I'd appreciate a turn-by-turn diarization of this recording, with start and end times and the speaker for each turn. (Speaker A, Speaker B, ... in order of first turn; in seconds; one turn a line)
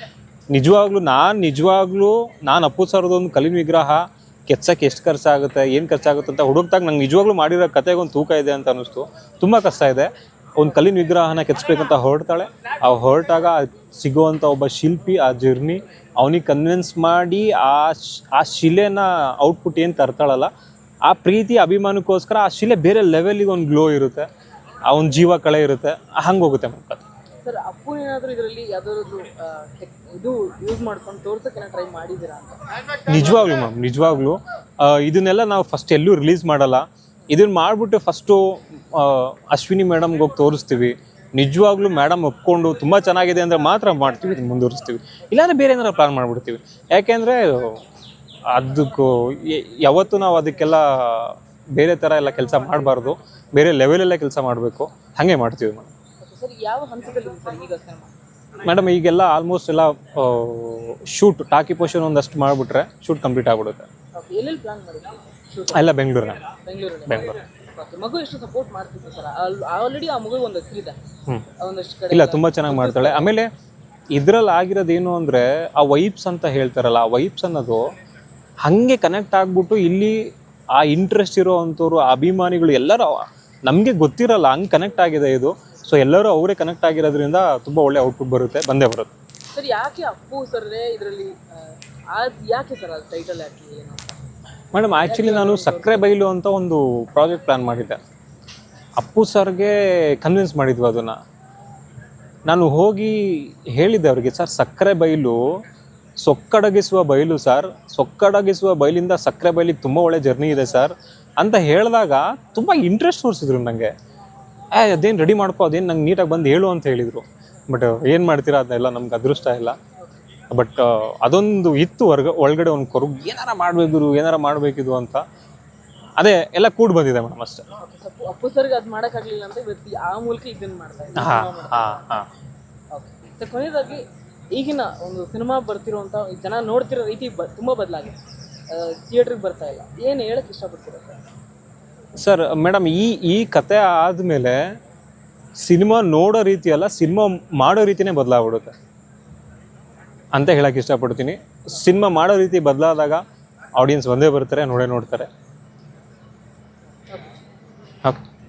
Speaker A: 0.5-20.5
Speaker A: 21.1-24.2
Speaker A: 24.9-27.0
Speaker B: 27.4-32.6
Speaker A: 33.1-47.8
Speaker A: 48.5-55.9
Speaker B: 56.2-58.1
Speaker A: 58.6-63.9
Speaker B: 64.1-65.9
Speaker A: 65.7-66.4
Speaker B: 66.5-71.0
Speaker A: 67.1-67.4
Speaker B: 71.5-73.3
Speaker A: 72.1-73.5
Speaker A: 74.1-77.8
Speaker A: 78.6-80.2
Speaker A: 80.8-89.1
Speaker B: 89.5-94.2
Speaker A: 94.7-98.0
Speaker B: 95.0-96.1
Speaker A: 99.0-101.2
Speaker A: 102.5-105.4
Speaker A: 106.2-113.9
Speaker A: 114.7-119.8
Speaker A: 120.5-125.2
Speaker A: 126.2-127.7
Speaker B: 127.8-132.1
Speaker A: 131.2-132.2
Speaker B: 132.9-141.2
Speaker A: 142.2-144.6
Speaker A: 145.6-148.8
Speaker A: 150.3-153.2
Speaker A: 153.8-155.3